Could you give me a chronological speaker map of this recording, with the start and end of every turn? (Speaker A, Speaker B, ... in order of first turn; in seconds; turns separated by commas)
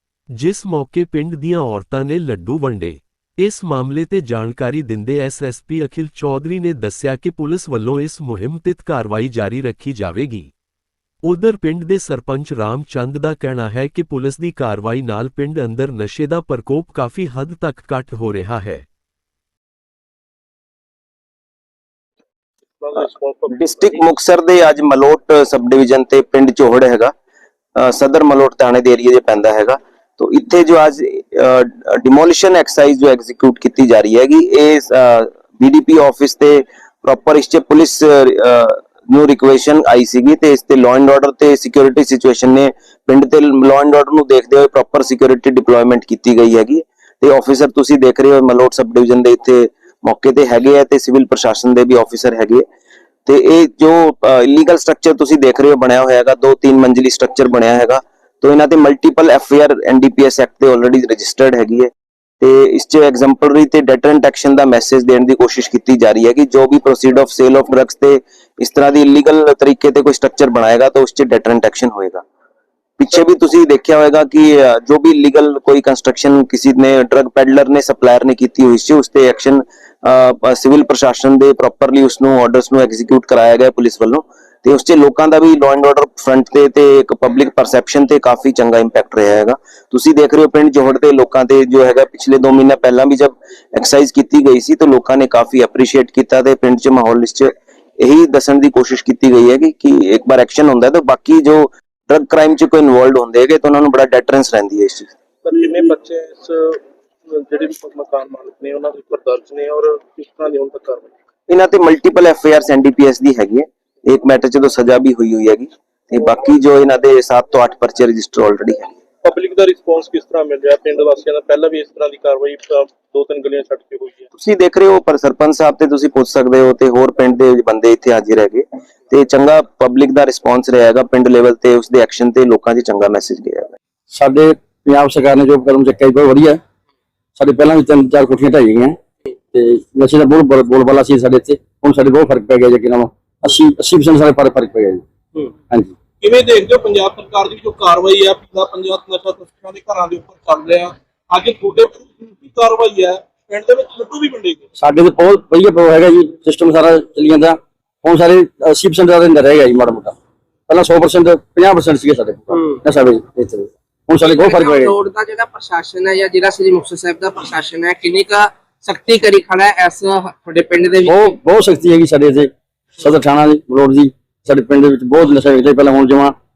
Speaker A: 0.3-10.5, Speaker A: 11.2-18.9, Speaker B: 22.8-24.0, Speaker C: 23.5-27.1, Speaker C: 27.8-52.6, Speaker C: 53.3-61.9, Speaker C: 62.4-72.2, Speaker C: 73.0-105.1, Speaker B: 105.4-111.1, Speaker C: 111.5-118.9, Speaker B: 119.2-124.3, Speaker C: 124.4-133.8, Speaker D: 134.1-136.6, Speaker D: 137.4-139.0, Speaker D: 139.5-145.9, Speaker B: 146.2-154.6, Speaker D: 154.8-160.2, Speaker D: 160.7-165.0, Speaker E: 164.2-171.3, Speaker D: 171.1-176.3